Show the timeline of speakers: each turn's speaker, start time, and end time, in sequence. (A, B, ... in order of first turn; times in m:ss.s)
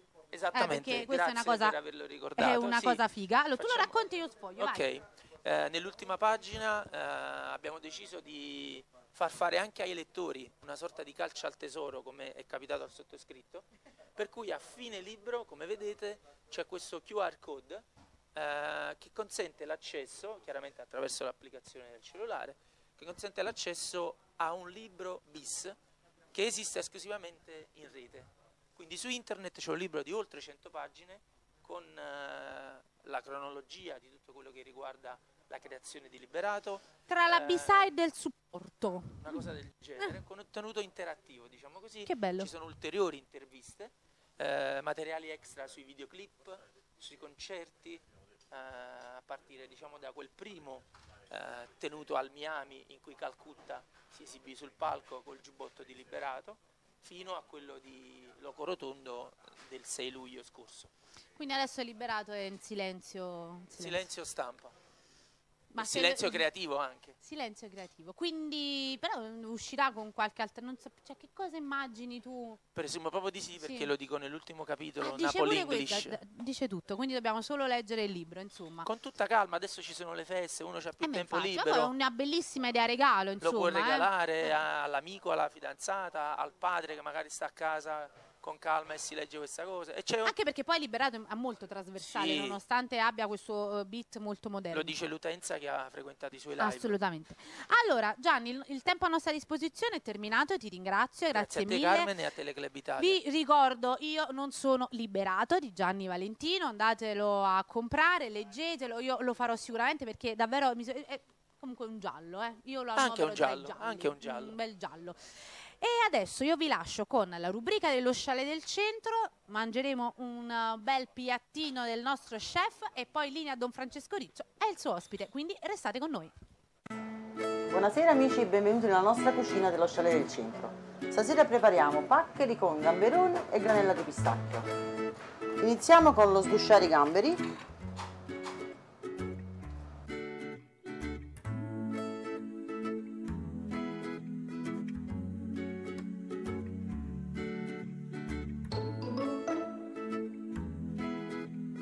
0:00.3-0:03.0 A
0:00.5-0:01.8 B
0:02.4-0:04.9 B
0:03.6-0:03.9 A
0:04.6-0:13.6 A
0:14.2-0:17.8 A
0:18.4-0:25.8 A
0:26.3-0:37.9 A
0:37.1-0:39.5 B
0:39.2-1:00.9 A
0:42.1-0:42.5 B
1:01.4-1:04.0 B
1:03.8-1:04.7 A
1:05.7-1:06.5 B
1:05.8-1:07.2 A
1:07.2-1:12.6 B
1:12.8-1:16.2 A
1:13.6-1:13.9 B
1:15.0-1:18.9 B
1:18.8-1:21.9 A
1:21.0-1:24.5 B
1:23.4-1:30.3 A
1:30.2-1:35.0 B
1:32.0-1:32.6 A
1:34.7-1:37.0 A
1:36.6-1:42.1 B
1:41.3-1:43.2 A
1:43.0-2:06.3 B
1:53.0-1:54.6 A
2:07.7-2:14.7 C
2:15.6-2:17.4 C